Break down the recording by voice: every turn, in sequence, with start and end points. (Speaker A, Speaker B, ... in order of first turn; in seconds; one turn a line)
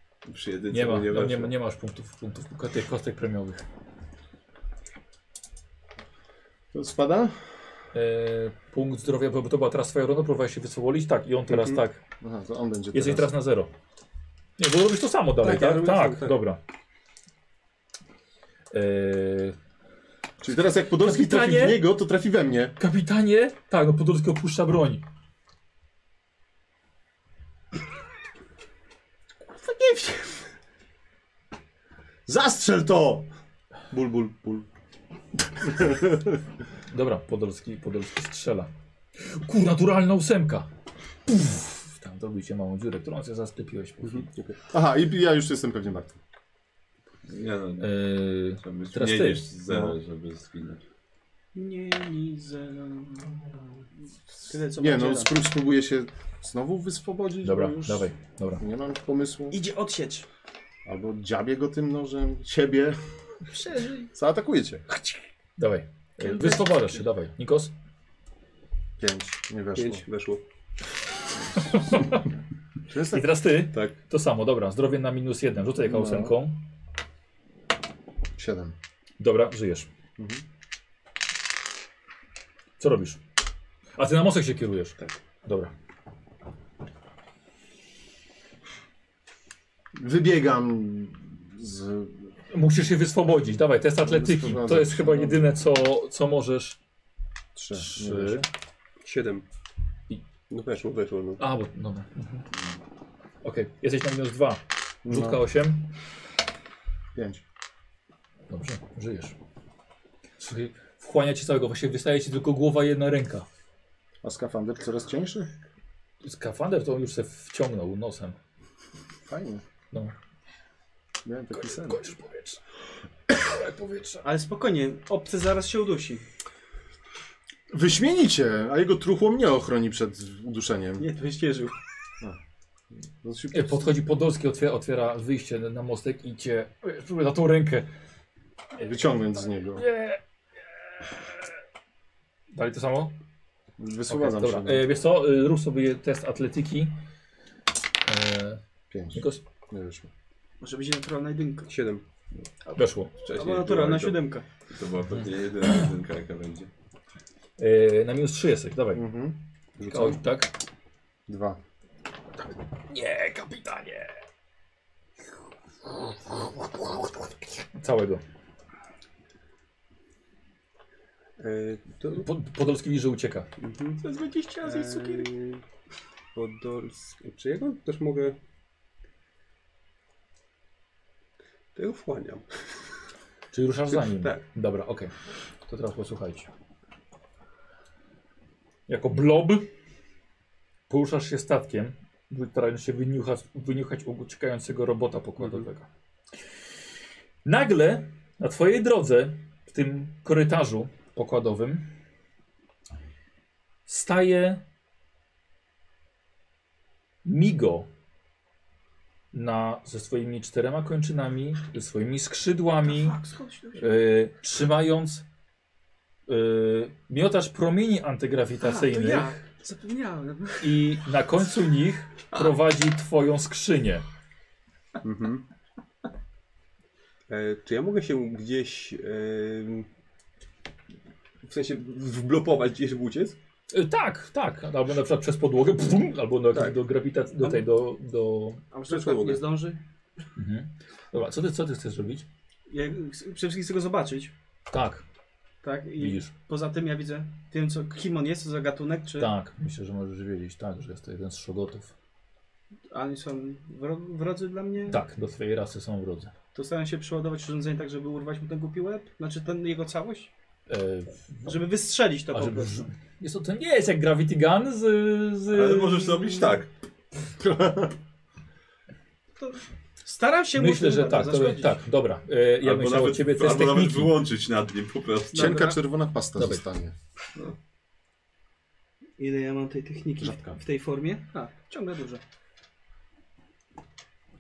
Speaker A: 0.3-1.5
Speaker B: 0.7-3.6
Speaker C: 6.7-7.4
Speaker B: 7.9-12.0
Speaker D: 11.5-11.8
Speaker C: 12.2-13.3
Speaker B: 12.9-13.7
Speaker B: 14.6-16.6
Speaker D: 15.4-16.4
Speaker B: 18.7-19.6
Speaker C: 20.4-22.7
Speaker B: 21.0-21.9
Speaker B: 22.8-25.0
Speaker E: 29.6-30.4
Speaker C: 32.3-33.3
Speaker C: 33.9-34.7
Speaker C: 35.6-36.4
Speaker B: 36.9-38.7
Speaker B: 39.2-40.7
Speaker B: 41.3-44.3
Speaker D: 44.0-44.6
Speaker C: 44.7-46.2
Speaker A: 47.3-48.0
Speaker B: 47.8-49.5
Speaker A: 48.6-50.8
Speaker C: 49.7-50.0
Speaker E: 51.5-53.5
Speaker E: 54.4-55.3
Speaker C: 54.7-58.1
Speaker B: 57.4-58.6
Speaker C: 58.6-59.6
Speaker E: 59.5-60.3
Speaker C: 60.9-63.0
Speaker E: 63.5-64.1
Speaker C: 64.1-64.8
Speaker B: 65.6-67.7
Speaker E: 66.3-66.9
Speaker C: 69.0-70.0
Speaker D: 69.7-70.4
Speaker B: 71.5-72.3
Speaker C: 72.9-73.3
Speaker B: 73.1-76.6
Speaker C: 75.8-76.3
Speaker C: 78.3-78.7
Speaker B: 79.2-79.9
Speaker B: 82.8-83.2
Speaker B: 84.0-85.7
Speaker C: 90.0-92.2
Speaker B: 92.5-96.8
Speaker C: 94.0-95.5
Speaker C: 97.5-98.4
Speaker B: 97.7-98.5
Speaker D: 99.0-99.5
Speaker D: 100.5-101.4
Speaker B: 101.4-102.5
Speaker B: 103.4-105.9
Speaker C: 105.0-105.4
Speaker C: 107.1-107.4
Speaker B: 108.5-109.3
Speaker B: 110.4-113.5
Speaker C: 114.2-115.5
Speaker B: 116.2-118.4
Speaker C: 119.3-119.6
Speaker C: 121.2-122.0
Speaker B: 121.5-122.6
Speaker B: 123.3-124.2
Speaker E: 124.2-126.2
Speaker C: 127.7-131.1
Speaker E: 131.0-131.8
Speaker C: 132.9-133.9
Speaker B: 133.5-137.9
Speaker C: 138.8-139.8
Speaker B: 139.8-140.2
Speaker B: 142.5-143.1
Speaker C: 143.8-144.9
Speaker B: 144.1-146.9
Speaker B: 148.1-148.6
Speaker C: 148.9-150.1
Speaker B: 149.1-149.4
Speaker E: 150.6-151.7
Speaker D: 151.7-152.0
Speaker E: 152.7-154.4
Speaker B: 152.7-153.1
Speaker A: 153.3-154.1
Speaker A: 154.7-156.7
Speaker B: 155.1-155.8
Speaker B: 157.6-159.1
Speaker C: 158.9-160.2
Speaker B: 159.8-160.5
Speaker C: 161.3-161.6
Speaker B: 162.9-164.2
Speaker B: 167.7-168.2
Speaker D: 171.4-172.3
Speaker B: 172.2-173.5
Speaker D: 173.6-174.0
Speaker E: 174.0-175.3
Speaker D: 174.6-175.6
Speaker D: 176.3-178.4
Speaker D: 181.7-182.4
Speaker B: 183.5-185.1
Speaker D: 183.9-184.4
Speaker B: 185.7-186.5
Speaker B: 188.9-189.7
Speaker B: 190.9-195.9
Speaker B: 197.4-201.9
Speaker B: 203.9-204.6
Speaker B: 207.2-207.9
Speaker B: 209.3-213.2
Speaker E: 212.9-213.9
Speaker B: 213.8-215.2
Speaker B: 216.3-219.4
Speaker E: 218.6-220.7
Speaker B: 220.6-224.0
Speaker D: 225.0-225.4
Speaker D: 227.3-229.9
Speaker D: 231.4-233.4
Speaker B: 233.7-238.6
Speaker D: 236.5-236.8
Speaker E: 238.7-239.8
Speaker D: 238.9-239.4
Speaker B: 240.4-242.3
Speaker E: 242.7-244.3
Speaker B: 244.7-245.0
Speaker E: 245.6-249.3
Speaker B: 246.0-246.3
Speaker B: 249.2-251.9
Speaker E: 252.9-255.0
Speaker B: 254.9-256.3
Speaker E: 256.5-260.3
Speaker B: 260.7-261.6
Speaker E: 261.4-262.9
Speaker B: 262.3-266.2
Speaker A: 265.5-266.7
Speaker C: 267.4-267.9
Speaker E: 269.4-271.8
Speaker B: 270.6-274.2
Speaker A: 272.6-275.7
Speaker E: 275.3-275.8
Speaker C: 275.3-276.9
Speaker B: 276.4-276.6
Speaker E: 279.2-282.2
Speaker C: 280.2-280.6